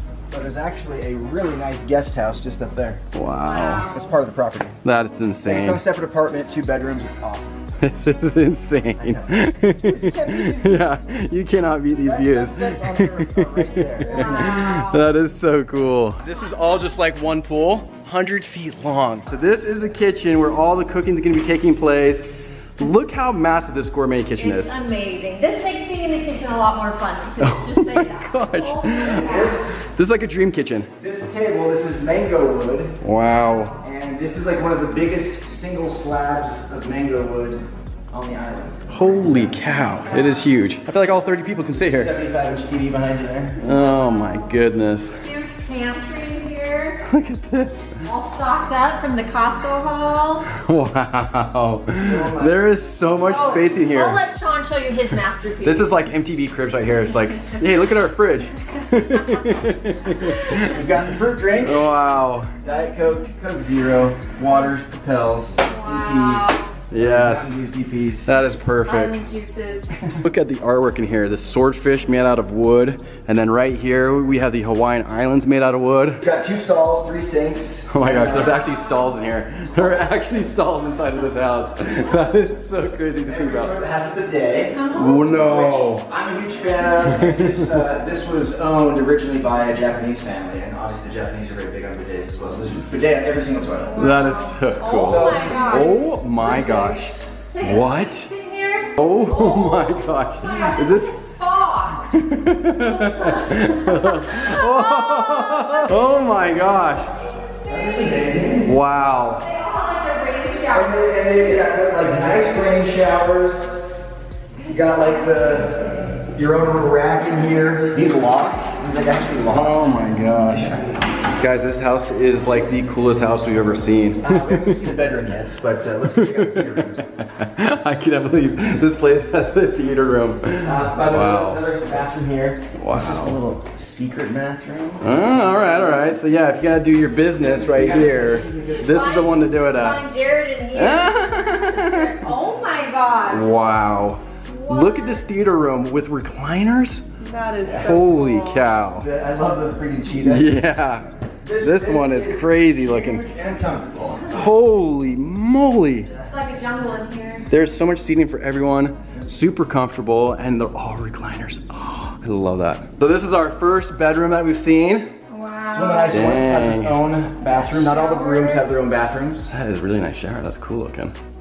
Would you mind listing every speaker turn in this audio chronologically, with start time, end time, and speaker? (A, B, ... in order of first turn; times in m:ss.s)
0:00.3-0:03.0 A
0:03.1-0:03.9 B
0:03.4-0:04.1 C
0:03.9-0:04.8 A
0:04.8-0:05.8 B
0:05.4-0:07.6 A
0:07.8-0:24.7 B
0:09.0-0:10.9 A
0:11.9-0:14.6 A
0:14.0-0:15.0 C
0:24.4-0:29.8 C
0:27.4-0:30.9 B
0:29.0-0:29.9 A
0:31.0-0:33.0 A
0:33.0-0:33.8 B
0:33.7-0:39.7 A
0:38.9-0:42.1 B
0:39.6-0:40.5 C
0:41.8-0:43.6 A
0:43.6-0:45.2 B
0:43.6-0:44.5 C
0:45.2-0:47.0 C
0:47.1-0:48.0 B
0:48.0-0:50.5 C
0:50.5-0:54.2 B
0:52.0-0:52.6 A
0:53.2-0:56.2 C
0:55.6-1:00.8 B
0:59.1-0:59.4 C
1:00.3-1:00.6 C
1:00.6-1:02.0 A
1:01.6-1:02.6 B
1:02.6-1:08.3 A
1:05.6-1:06.8 C
1:06.9-1:07.6 B
1:08.2-1:09.2 B
1:08.9-1:09.9 C
1:10.2-1:16.2 B
1:16.2-1:18.6 A
1:17.9-1:23.8 B
1:18.4-1:19.0 C
1:23.3-1:34.1 A
1:24.7-1:25.2 C
1:24.9-1:26.1 B
1:27.0-1:27.7 B
1:33.8-1:42.1 C
1:34.0-1:38.3 B
1:34.9-1:35.9 A
1:39.0-1:41.2 B
1:42.1-1:47.1 B
1:42.8-1:46.2 C
1:47.2-1:48.2 C
1:47.7-1:48.7 A
1:48.6-1:49.4 B
1:49.3-1:51.2 C
1:50.7-1:53.8 A
1:54.6-2:00.9 A
1:59.5-2:00.8 B
2:01.4-2:04.8 B
2:04.2-2:07.0 A
2:06.2-2:11.6 B
2:10.6-2:16.1 A
2:12.8-2:13.4 B
2:15.0-2:20.0 B
2:17.4-2:19.0 A
2:18.8-2:23.6 C
2:20.7-2:22.1 B
2:23.3-2:27.1 B
2:24.4-2:25.2 C
2:27.2-2:28.7 C
2:27.6-2:29.1 B
2:29.0-2:30.6 A
2:30.2-2:31.1 B
2:31.4-2:34.5 A
2:31.6-2:33.3 B
2:34.3-2:36.1 B
2:36.3-2:37.5 C
2:37.5-2:45.1 B
2:45.3-2:46.4 C
2:45.7-2:49.5 A
2:46.1-2:47.1 B
2:47.4-2:48.6 C
2:49.5-2:51.2 B